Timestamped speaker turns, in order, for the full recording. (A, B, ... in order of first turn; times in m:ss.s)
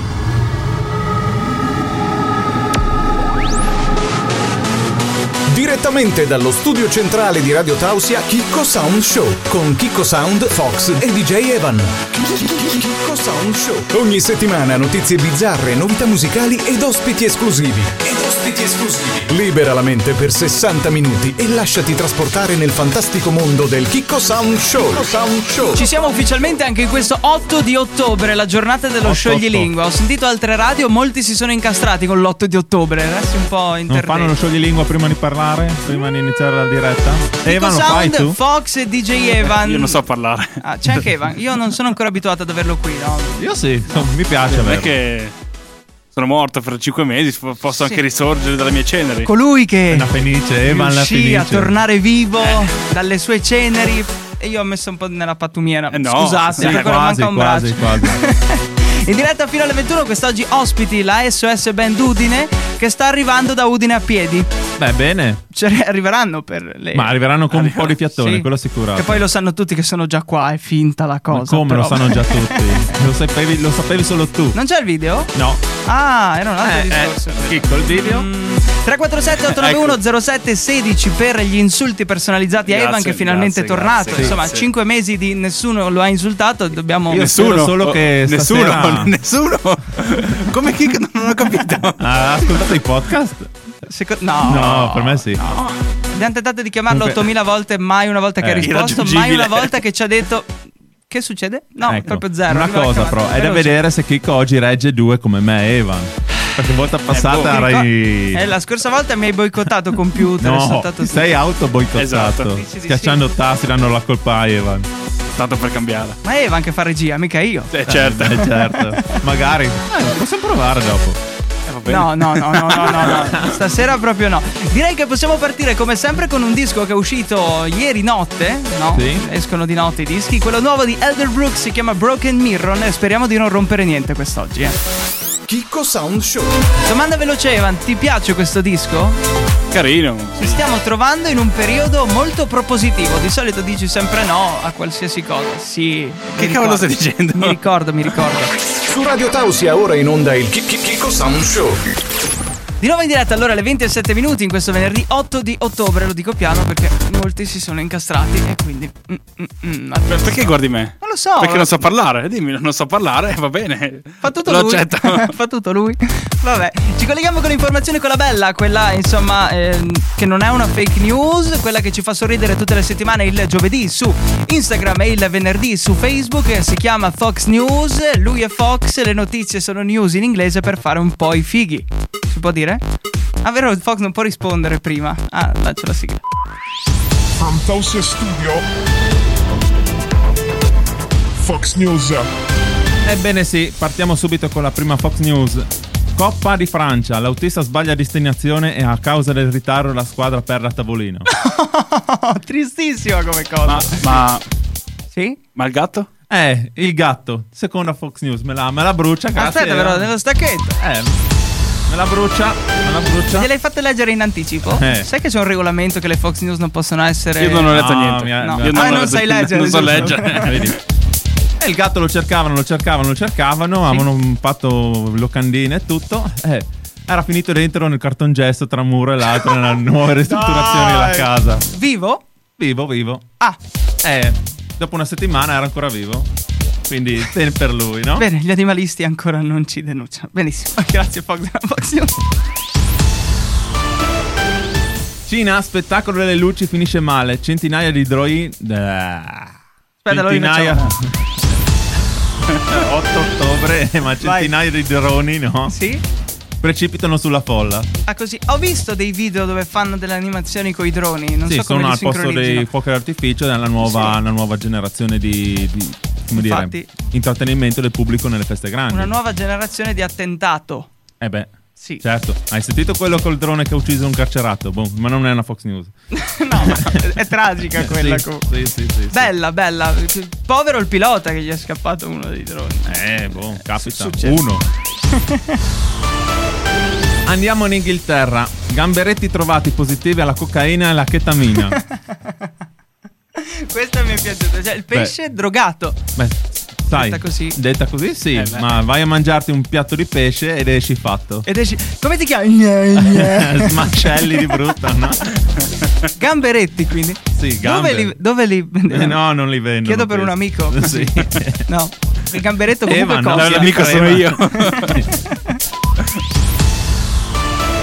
0:05.5-0:25.9 A
0:25.6-0:34.3 B
0:29.0-0:29.7 C
0:33.9-0:38.4 C
0:37.4-0:40.0 B
0:39.4-0:40.6 D
0:40.6-0:44.1 B
0:43.4-0:45.0 C
0:44.5-0:45.3 D
0:46.1-0:49.3 D
0:47.7-0:48.0 B
0:49.2-0:50.1 B
0:49.9-0:51.7 C
0:50.6-1:04.5 B
0:55.9-0:57.0 D
0:56.6-0:58.2 C
1:04.8-1:05.4 C
1:05.5-1:07.2 B
1:06.9-1:09.2 C
1:07.5-1:08.0 D
1:08.1-1:12.6 B
1:11.3-1:14.6 C
1:14.5-1:15.3 B
1:15.3-1:15.6 C
1:15.8-1:27.3 B
1:16.6-1:18.3 C
1:19.5-1:20.0 D
1:22.6-1:24.7 D
1:27.1-1:29.1 C
1:27.2-1:32.0 D
1:32.0-1:33.5 C
1:33.8-1:40.6 B
1:34.4-1:35.4 C
1:36.9-1:37.2 C
1:38.4-1:38.8 C
1:38.6-1:39.7 D
1:41.1-1:43.8 B
1:41.8-1:48.4 C
1:47.1-1:47.7 D
1:47.3-1:51.4 B
1:50.4-1:54.9 C
1:51.9-1:52.6 D
1:52.5-1:53.2 B
1:55.4-1:56.2 D
1:56.2-1:57.7 B
1:57.7-1:58.5 D
1:57.8-2:01.2 C
1:58.4-1:59.2 B
2:01.7-2:03.3 D
2:01.9-2:14.8 B
2:03.0-2:03.4 C
2:08.9-2:09.2 C
2:15.5-2:16.6 A
2:16.8-2:19.2 B
2:19.7-2:20.6 D
2:20.4-2:28.5 B
2:26.4-2:28.1 D
2:28.8-2:31.8 A
2:32.8-2:41.9 B
2:40.1-2:45.3 D
2:44.2-3:02.8 B
3:03.4-3:06.2 B
3:07.4-3:08.6 E
3:11.4-3:12.3 E
3:13.0-3:21.3 C
3:21.3-3:24.2 B
3:23.7-3:24.4 D
3:25.1-3:25.4 B
3:25.6-3:26.1 D
3:26.3-3:30.1 C
3:29.4-3:30.8 B
3:30.8-3:31.2 C
3:31.9-3:33.5 C
3:33.3-3:40.6 B
3:34.7-3:35.1 C
3:37.4-3:40.7 D
3:37.7-3:39.2 C
3:40.3-3:40.8 C
3:41.6-3:51.7 C
3:50.2-3:52.2 B
3:52.6-3:53.3 C
3:54.0-3:56.3 C
3:56.9-3:58.2 C
3:58.2-4:02.2 B
4:05.3-4:09.6 C
4:10.0-4:10.9 B
4:10.1-4:11.1 C
4:12.5-4:15.8 C
4:14.2-4:14.5 B
4:15.7-4:16.0 B
4:16.6-4:17.9 C
4:18.1-4:22.7 B
4:21.5-4:29.1 C
4:23.8-4:24.2 B
4:26.3-4:26.9 B
4:28.9-4:30.9 B
4:31.2-4:35.9 C
4:31.8-4:32.0 B
4:36.1-4:38.5 B
4:36.6-4:37.0 C
4:37.8-4:39.3 C
4:39.1-4:44.4 B
4:42.9-4:44.6 C
4:45.1-4:45.6 B
4:47.2-4:51.8 C
4:51.9-4:52.3 B
4:53.4-4:56.0 B
4:56.2-5:01.4 C
4:56.9-4:57.6 B
4:58.3-4:58.7 D
5:01.4-5:04.5 B
5:03.0-5:05.3 C
5:06.1-5:09.2 B
5:07.4-5:08.1 C
5:08.9-5:11.6 C
5:09.8-5:15.6 B
5:12.8-5:15.0 C
5:13.3-5:15.0 D